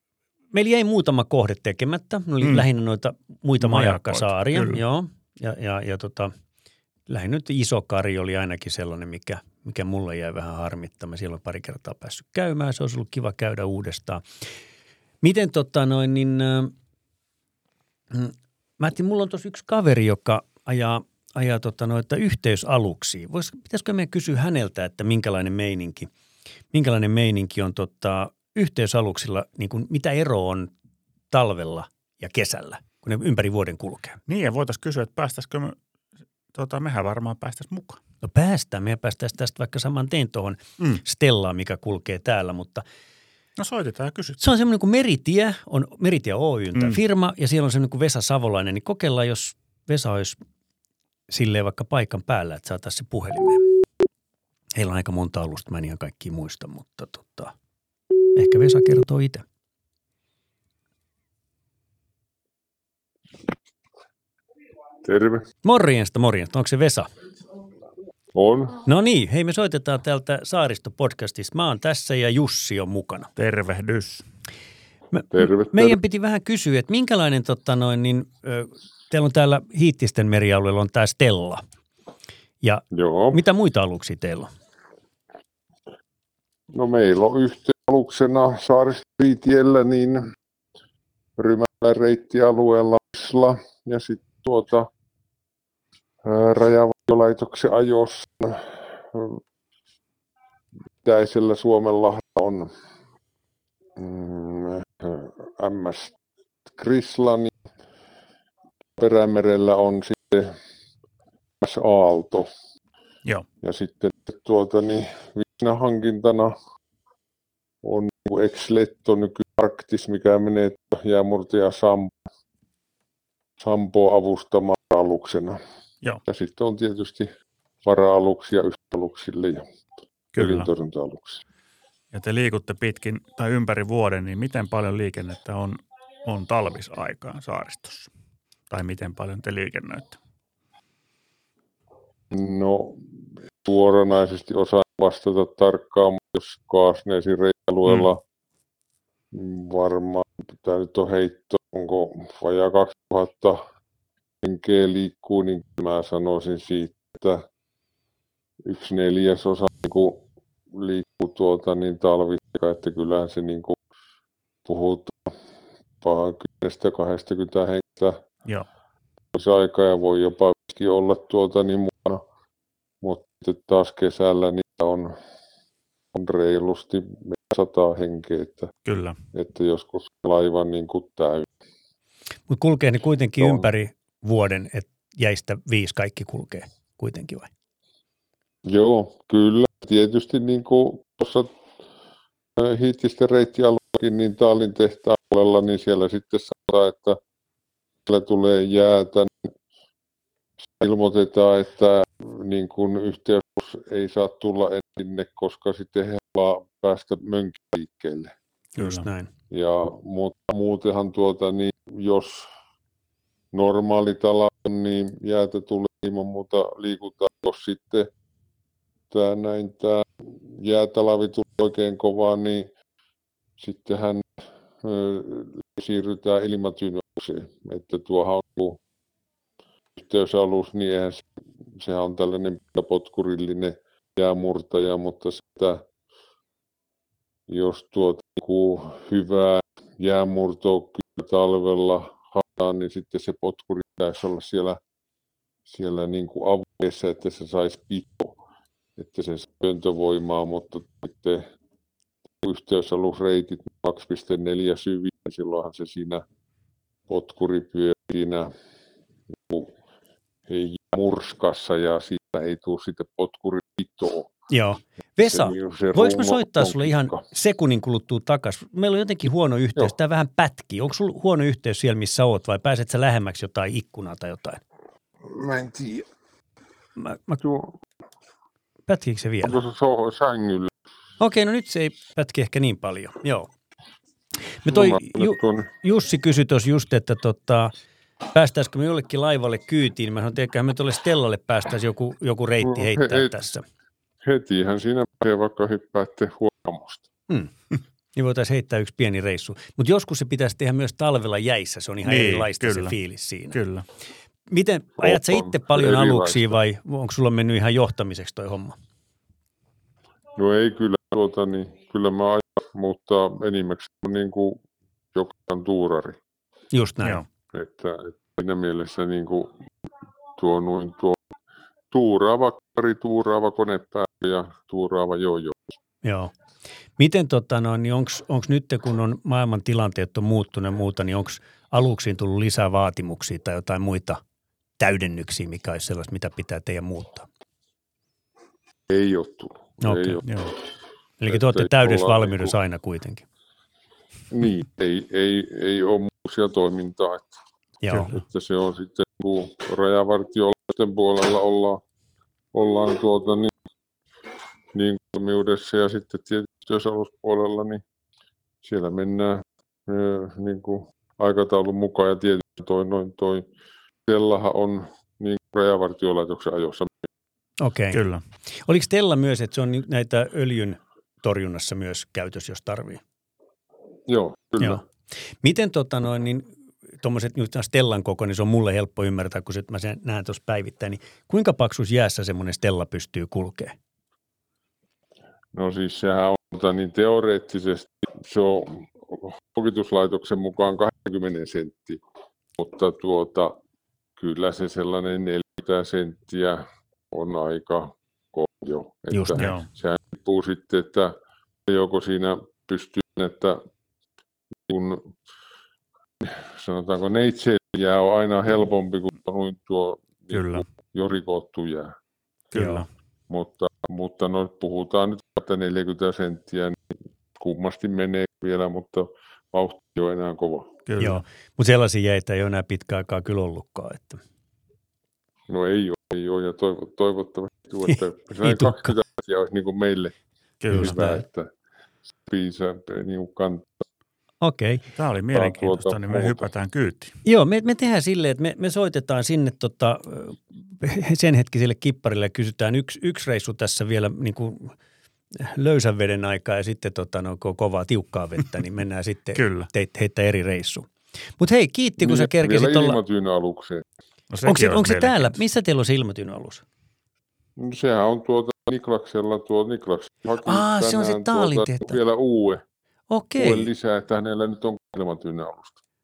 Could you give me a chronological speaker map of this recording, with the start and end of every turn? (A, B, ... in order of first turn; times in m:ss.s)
0:00.5-0:06.3 A
0:03.6-0:04.8 B
0:07.1-0:14.2 A
0:15.2-0:16.7 A
0:18.1-0:26.1 A
0:26.7-0:30.7 A
0:31.3-0:34.2 A
0:34.3-0:35.8 B
0:36.5-0:38.0 B
0:38.2-0:42.8 A
0:43.6-0:44.4 B
0:44.4-0:50.4 A
0:51.3-0:53.7 A
0:54.7-0:57.5 A
0:58.3-0:59.4 A
1:05.0-1:05.4 C
1:05.6-1:07.1 A
1:08.3-1:08.8 C
1:08.8-1:13.3 A
1:13.4-1:14.2 B
1:15.1-1:21.6 A
1:15.3-1:16.0 C
1:22.6-1:24.5 A
1:22.9-1:23.4 C
1:26.7-1:30.3 C
1:31.4-1:34.9 C
1:36.2-1:39.4 C
1:41.0-1:42.7 C
1:44.0-1:46.1 C
1:46.7-1:47.5 C
1:49.0-1:50.6 C
1:51.6-1:52.5 C
1:53.6-1:56.5 C
1:57.8-2:02.1 C
2:03.6-2:05.6 C
2:06.3-2:07.3 C
2:07.8-2:09.6 C
2:10.3-2:10.7 B
2:10.4-2:11.4 C
2:12.1-2:18.1 B
2:18.7-2:20.2 B
2:22.3-2:28.2 C
2:29.3-2:33.6 C
2:34.4-2:37.4 C
2:38.6-2:43.8 C
2:44.6-2:45.4 C
2:46.0-2:48.2 C
2:49.3-2:52.2 C
2:53.0-2:55.2 C
2:56.1-2:58.7 C
2:58.8-2:59.2 B
2:59.3-3:01.5 C
3:02.5-3:07.5 A
3:08.6-3:11.5 C
3:12.6-3:17.2 C
3:18.0-3:19.5 C
3:20.8-3:28.3 C
3:28.8-3:29.1 B
3:28.8-3:29.3 A
3:29.5-3:32.5 C
3:33.5-3:38.1 C
3:39.1-3:42.7 C
3:43.6-3:48.8 C
3:50.0-3:51.2 C
3:51.7-3:55.8 C
3:57.5-4:04.8 C
4:05.7-4:08.4 C
4:09.0-4:11.5 C
4:12.4-4:16.2 C
4:17.1-4:18.5 C
4:20.5-4:24.3 C
4:24.5-4:34.6 A
4:25.2-4:27.2 C
4:35.2-4:36.0 C
4:37.0-4:37.4 A
4:37.4-4:37.7 C
4:38.9-4:39.6 A
4:39.4-4:40.7 C
4:41.2-4:43.5 A
4:44.6-4:47.7 A
4:44.6-4:45.7 C
4:48.3-4:53.6 A
4:52.6-4:53.3 C
4:54.2-4:57.0 C
4:58.1-5:03.6 A
5:02.0-5:03.0 B
5:03.5-5:03.8 B
5:04.5-5:08.8 A
5:05.0-5:06.6 C
5:10.4-5:14.6 C
5:15.1-5:16.2 C
5:16.7-5:17.2 A
5:17.5-5:19.6 C
5:20.4-5:21.2 C
5:21.9-5:25.8 C
5:26.0-5:26.3 A
5:27.0-5:34.2 A
5:34.8-5:37.3 A
5:38.9-5:40.3 C
5:39.8-5:40.2 A
5:40.2-5:40.5 B
5:41.2-5:43.2 A
5:41.3-5:42.5 C
5:44.3-5:47.4 C
5:47.8-5:48.2 A
5:48.1-5:51.8 C
5:52.5-5:53.5 C
5:54.7-5:57.8 C
5:58.6-6:03.4 C
6:04.0-6:07.1 C
6:07.6-6:13.0 A
6:07.9-6:08.2 B
6:14.1-6:14.8 C
6:15.4-6:23.7 A
6:25.5-6:32.0 C
6:32.6-6:33.6 C
6:34.2-6:43.6 C
6:39.1-6:39.6 A
6:39.4-6:39.7 B
6:44.7-6:45.1 C
6:46.2-6:52.0 C
6:50.3-6:50.6 B
6:52.5-6:52.9 B
6:52.5-6:52.8 A
6:53.3-6:56.8 C
6:57.3-7:00.8 C
7:00.9-7:01.2 B
7:01.0-7:04.2 A
7:05.5-7:10.1 C
7:08.4-7:08.9 A
7:10.6-7:11.0 B
7:10.7-7:11.2 A
7:10.7-7:11.5 C
7:12.2-7:13.8 C
7:14.4-7:14.8 A
7:14.9-7:17.2 B
7:15.3-7:16.4 C
7:17.2-7:24.7 A
7:25.3-7:33.0 A
7:29.3-7:29.7 B
7:32.0-7:33.8 C
7:34.3-7:35.4 B
7:34.4-7:36.6 A
7:37.6-7:42.6 C
7:40.4-7:42.0 A
7:43.1-7:43.7 A
7:43.4-7:45.8 C